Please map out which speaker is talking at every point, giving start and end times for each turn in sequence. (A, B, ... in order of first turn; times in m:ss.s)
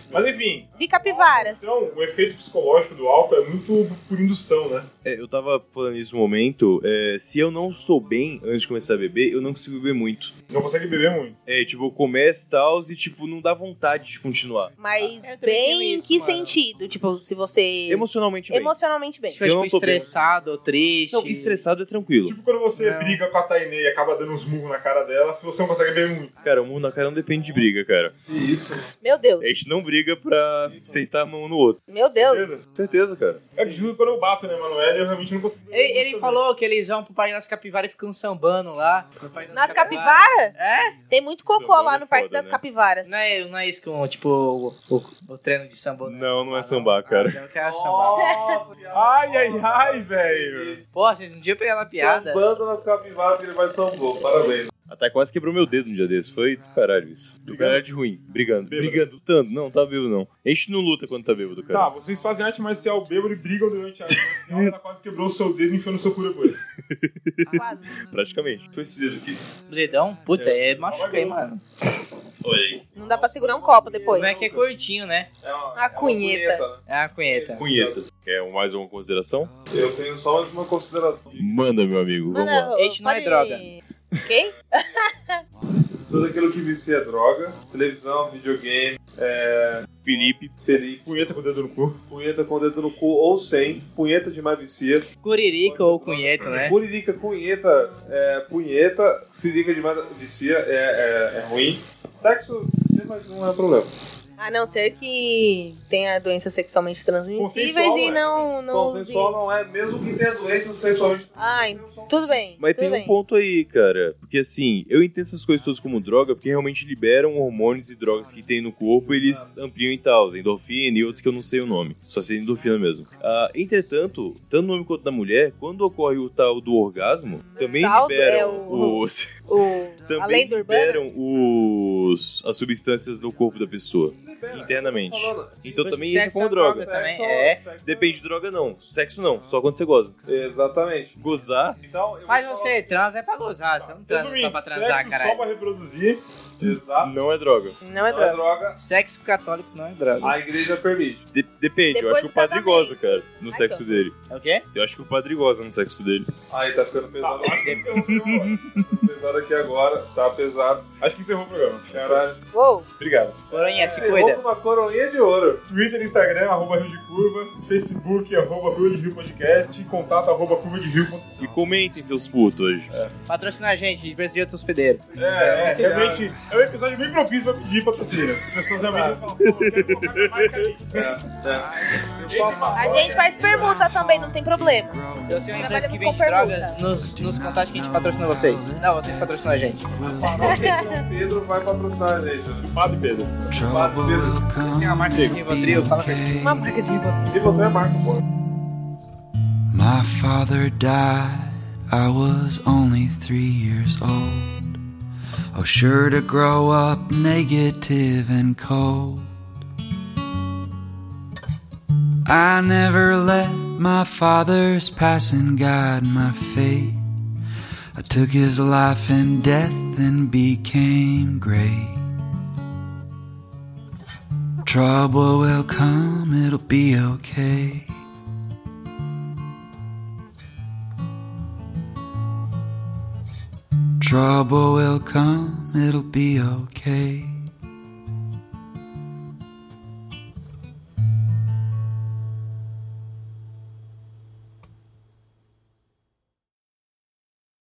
0:00.1-0:04.9 A
0:00.8-0:01.7 B
0:05.0-0:10.3 C
0:10.5-0:11.4 A
0:11.5-0:14.7 C
0:14.8-0:19.4 B
0:15.0-0:16.6 D
0:17.9-0:18.7 C
0:19.3-0:21.6 D
0:19.4-0:20.1 C
0:21.1-0:22.4 C
0:22.2-0:26.3 A
0:22.8-0:23.2 D
0:26.4-0:28.1 C
0:28.3-0:28.9 E
0:29.0-0:29.5 B
0:29.4-0:31.8 C
0:31.9-0:32.6 B
0:32.6-0:33.5 C
0:33.6-0:36.4 A
0:35.7-0:41.0 D
0:39.5-0:40.5 B
0:41.1-0:43.1 B
0:41.5-0:42.6 C
0:43.0-0:48.3 D
0:46.0-0:47.4 C
0:47.6-0:50.8 E
0:48.2-0:48.6 B
0:48.9-0:50.8 A
0:50.9-0:52.4 D
0:52.0-0:54.7 E
0:54.9-1:01.9 C
0:57.4-0:57.8 A
0:58.7-0:59.1 A
1:01.7-1:06.6 A
1:06.9-1:09.4 C
1:07.5-1:08.0 B
1:09.7-1:11.6 D
1:10.4-1:10.9 C
1:10.8-1:11.4 A
1:12.4-1:12.9 C
1:13.0-1:14.4 B
1:13.0-1:14.6 E
1:14.1-1:15.3 D
1:15.4-1:18.0 E
1:15.8-1:16.6 B
1:16.9-1:17.6 D
1:17.6-1:19.5 C
1:19.7-1:21.7 E
1:21.4-1:22.7 C
1:22.3-1:25.4 B
1:22.7-1:23.7 D
1:26.1-1:31.0 E
1:30.0-1:30.5 C
1:31.0-1:32.0 A
1:32.1-1:35.1 E
1:35.2-1:36.8 D
1:35.6-1:43.9 E
1:44.4-1:49.4 B
1:47.4-1:48.4 A
1:48.7-1:52.4 E
1:51.4-1:53.1 B
1:52.6-2:09.4 C
1:59.1-1:59.5 E
2:07.6-2:11.0 B
2:10.1-2:16.9 C
2:14.2-2:15.7 E
2:15.7-2:17.6 D
2:16.7-2:18.2 E
2:17.8-2:20.2 C
2:20.2-2:21.2 E
2:21.2-2:21.8 C
2:21.8-2:23.1 E
2:22.3-2:25.5 D
2:23.8-2:26.2 A
2:26.6-2:27.1 E
2:26.6-2:27.8 C
2:27.8-2:28.4 B
2:28.1-2:28.8 E
2:28.8-2:30.4 D
2:30.2-2:31.2 E
2:31.3-2:34.2 C
2:31.9-2:34.1 B
2:34.3-2:34.6 D
2:34.7-2:36.3 C
2:36.5-2:38.1 E
2:37.2-2:38.6 A
2:38.0-2:38.8 C
2:38.8-2:40.9 E
2:41.0-2:42.2 A
2:41.9-2:42.4 E
2:42.5-2:42.9 B
2:43.5-2:44.4 D
2:43.5-2:45.6 E
2:43.8-2:44.2 A
2:45.7-2:51.5 A
2:51.4-2:52.9 C
2:53.3-2:55.9 D
2:55.1-2:56.3 E
2:55.2-3:03.8 A
2:58.8-2:59.2 E
2:59.4-3:00.5 C
3:00.9-3:03.4 E
3:02.7-3:04.9 B
3:03.3-3:05.8 F
3:05.3-3:09.9 D
3:05.5-3:06.8 B
3:06.8-3:10.8 F
3:10.2-3:12.7 E
3:10.4-3:11.0 B
3:12.6-3:13.5 A
3:13.5-3:16.7 F
3:13.6-3:14.4 E
3:14.6-3:16.3 D
3:16.4-3:17.4 B
3:17.3-3:18.2 E
3:19.7-3:24.8 F
3:25.5-3:29.3 F
3:32.3-3:37.0 F
3:38.0-3:42.0 F
3:44.6-3:48.0 F
3:54.0-3:57.5 F